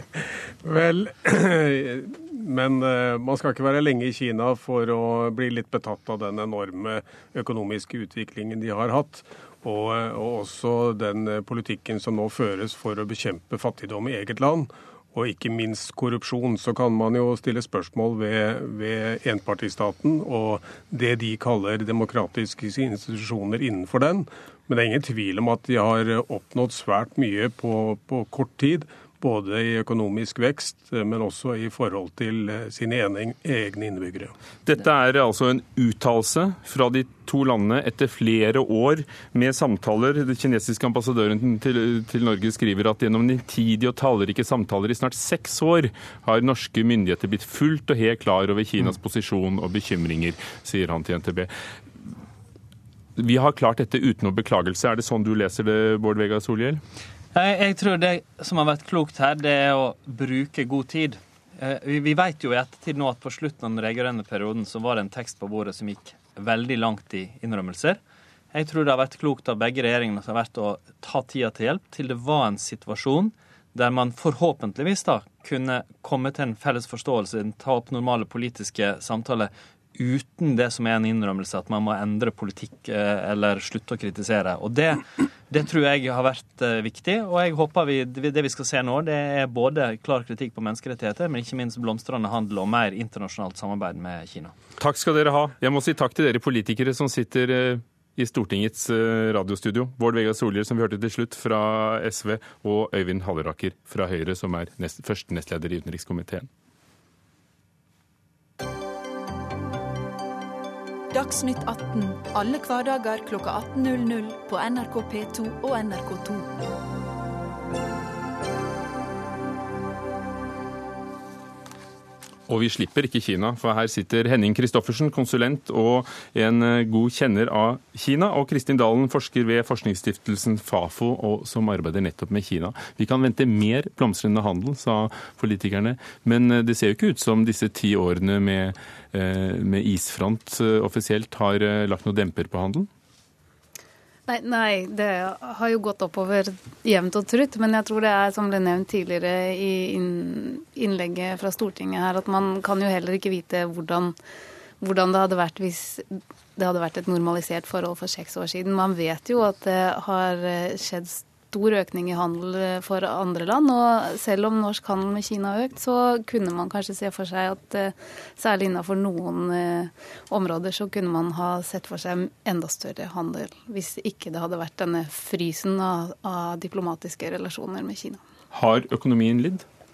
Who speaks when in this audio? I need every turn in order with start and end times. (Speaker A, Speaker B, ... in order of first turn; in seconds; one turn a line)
Speaker A: 0.6-34.3
Speaker B: 34.6-51.5
Speaker B: 53.2-56.8
Speaker C: 57.3-68.0
Speaker C: 68.5-94.5
Speaker B: 94.8-106.5
Speaker D: 111.1-116.6
Speaker B: 122.5-142.9
Speaker E: 144.3-154.1
Speaker E: 154.8-178.2
Speaker B: 178.5-179.6